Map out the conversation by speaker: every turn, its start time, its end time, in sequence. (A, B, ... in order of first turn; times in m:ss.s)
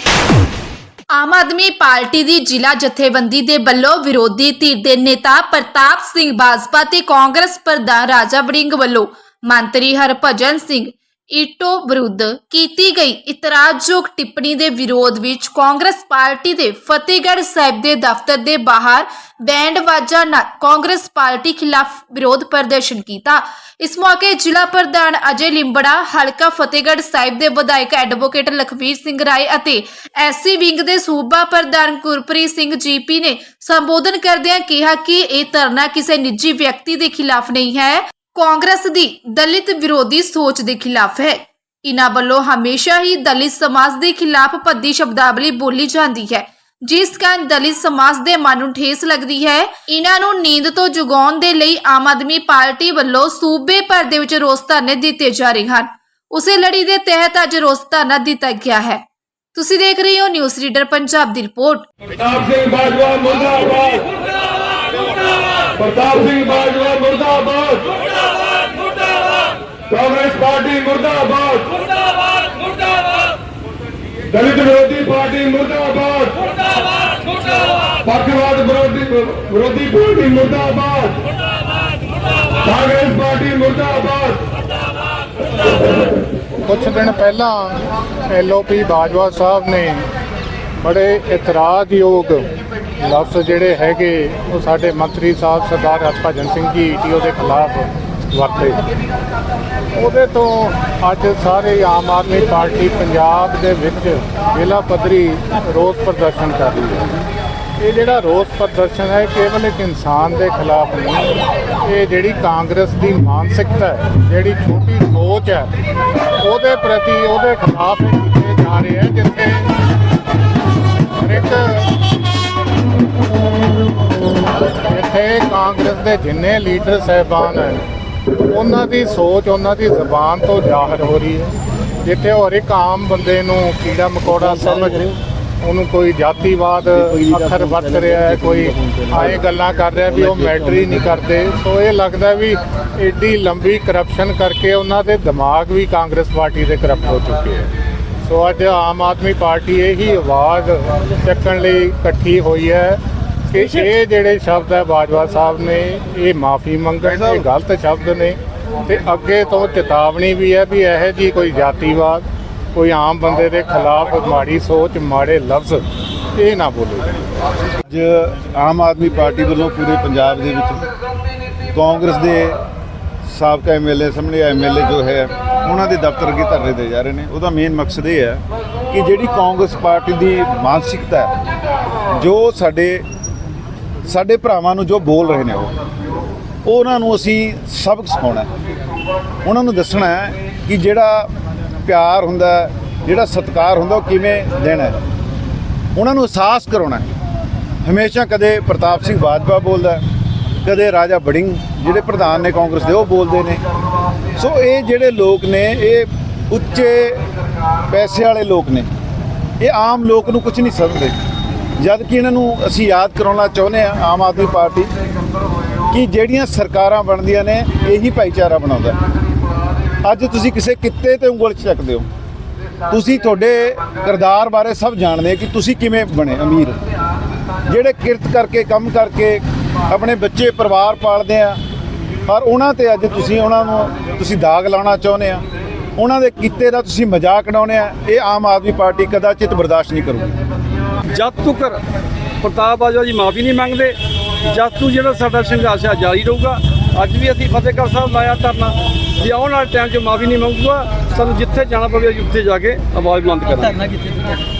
0:01.1-0:59.0 A
0:59.5-1:01.9 A
1:02.2-1:04.1 B
1:05.8-1:08.0 B
1:09.9-1:11.8 B
1:14.3-1:16.4 B
1:18.0-1:21.2 B
1:22.6-1:24.4 B
1:26.6-1:30.1 C
1:30.8-1:32.5 C
1:33.0-1:38.8 C
1:40.0-1:47.2 C
1:47.8-1:55.7 C
1:56.4-1:59.7 C
2:01.1-2:01.9 C
2:04.8-2:07.9 C
2:08.4-2:11.5 C
2:12.0-2:15.0 C
2:14.2-2:15.2 D
2:15.6-2:27.7 C
2:16.8-2:21.3 D
2:28.2-2:33.0 C
2:33.5-2:47.2 C
2:47.9-2:50.9 E
2:51.7-2:52.6 E
2:53.2-3:01.3 E
3:02.1-3:03.0 E
3:04.0-3:05.8 E
3:06.6-3:08.5 E
3:09.4-3:11.3 E
3:11.8-3:15.0 E
3:15.9-3:17.0 E
3:17.8-3:20.0 E
3:20.6-3:23.6 E
3:24.4-3:27.2 E
3:27.9-3:28.9 E
3:29.6-3:31.1 E
3:31.8-3:34.9 E
3:35.9-3:39.0 E
3:40.0-3:42.1 E
3:42.9-3:46.8 E
3:47.7-3:51.6 E
3:52.2-3:55.4 E
3:56.0-4:00.4 E
4:01.1-4:01.8 F
4:02.4-4:13.8 F
4:13.8-4:14.4 D